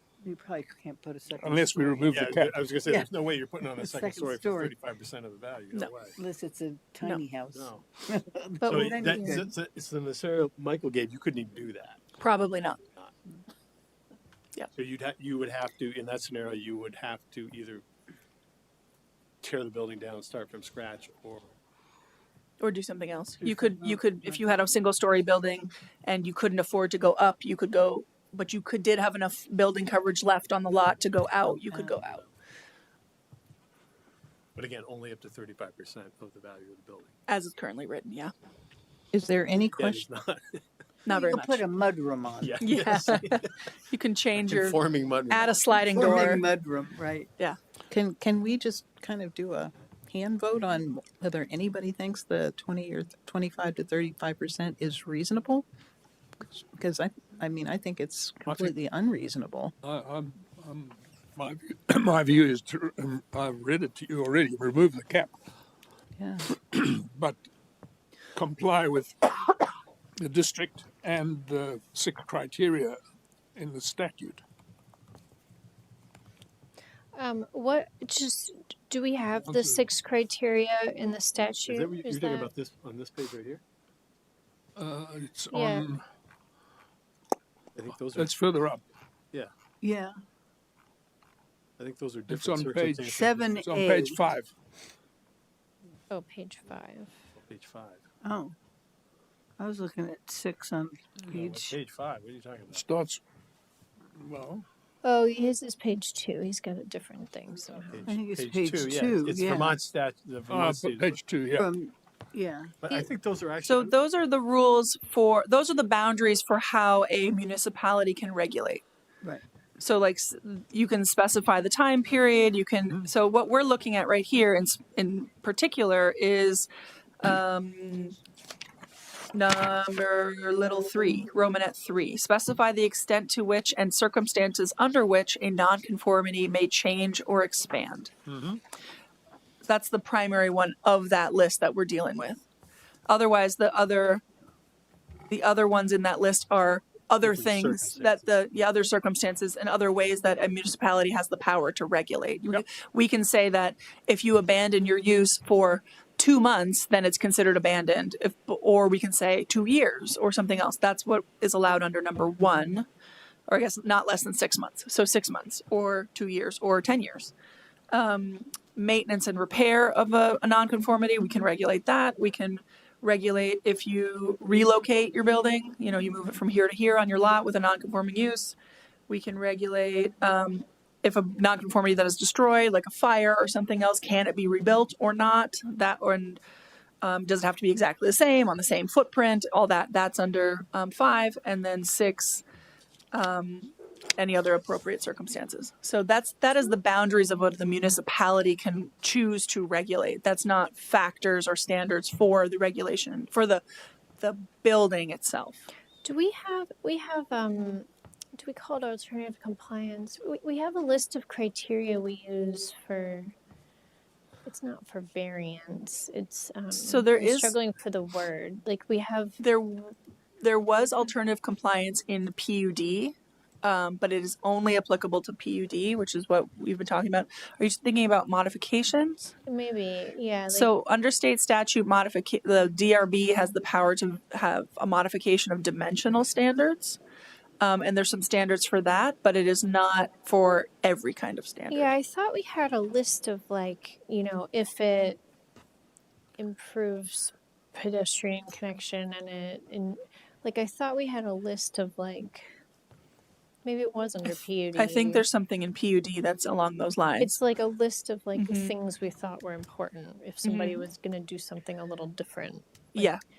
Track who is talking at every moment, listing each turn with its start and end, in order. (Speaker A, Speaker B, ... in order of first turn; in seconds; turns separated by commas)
Speaker A: 0.2-1.9, Speaker B: 1.3-2.7, Speaker C: 2.0-6.2, Speaker A: 3.8-4.7, Speaker A: 6.2-9.3, Speaker C: 7.5-7.8, Speaker C: 8.6-12.0, Speaker D: 8.6-9.4, Speaker E: 12.2-12.8, Speaker C: 14.7-17.8, Speaker C: 19.4-21.5, Speaker E: 22.6-32.2, Speaker C: 31.7-32.3, Speaker C: 34.5-37.1, Speaker E: 37.3-38.3, Speaker F: 39.1-40.0, Speaker C: 39.8-40.6, Speaker E: 41.0-41.7, Speaker A: 41.3-42.5, Speaker C: 42.4-43.5, Speaker E: 42.6-46.5, Speaker C: 44.3-46.4, Speaker A: 46.0-47.3, Speaker F: 47.9-55.6, Speaker F: 56.4-59.7, Speaker B: 58.5-58.7, Speaker B: 59.8-65.3, Speaker F: 66.2-66.5, Speaker B: 66.7-67.4, Speaker B: 68.3-69.6, Speaker B: 70.2-73.0, Speaker B: 73.5-74.4, Speaker D: 77.1-82.5, Speaker B: 79.4-79.8, Speaker C: 81.7-83.6, Speaker B: 84.8-86.0, Speaker D: 85.5-85.9, Speaker C: 87.7-88.4, Speaker B: 88.1-88.8, Speaker A: 89.8-90.1, Speaker C: 91.8-93.5, Speaker B: 92.3-94.5, Speaker A: 93.1-94.2, Speaker D: 96.1-97.2, Speaker C: 97.3-98.1, Speaker A: 98.2-98.5, Speaker A: 99.6-101.8, Speaker C: 101.2-102.8, Speaker B: 102.7-103.2, Speaker B: 104.2-104.6, Speaker D: 105.0-108.1, Speaker C: 107.9-111.2, Speaker A: 108.1-109.8, Speaker B: 110.5-111.7, Speaker A: 111.6-112.7, Speaker C: 112.8-114.0, Speaker E: 113.6-118.8, Speaker E: 119.8-126.7, Speaker E: 127.2-128.1, Speaker E: 129.3-138.1, Speaker C: 138.3-138.6, Speaker E: 139.6-142.4, Speaker E: 143.1-144.2, Speaker E: 145.3-162.9, Speaker C: 147.2-148.4, Speaker E: 163.5-167.3, Speaker E: 167.9-178.6, Speaker E: 179.1-186.4, Speaker E: 187.0-192.4, Speaker E: 193.1-203.6, Speaker E: 204.2-205.7, Speaker D: 206.0-213.3, Speaker D: 214.4-219.4, Speaker E: 216.7-217.6, Speaker E: 219.4-229.3, Speaker D: 229.4-230.7, Speaker E: 230.5-237.0, Speaker E: 237.6-241.9, Speaker D: 241.7-245.2, Speaker D: 246.4-252.5, Speaker D: 253.6-255.2, Speaker E: 254.2-257.4, Speaker D: 257.2-263.1, Speaker E: 258.3-258.7, Speaker E: 260.4-260.9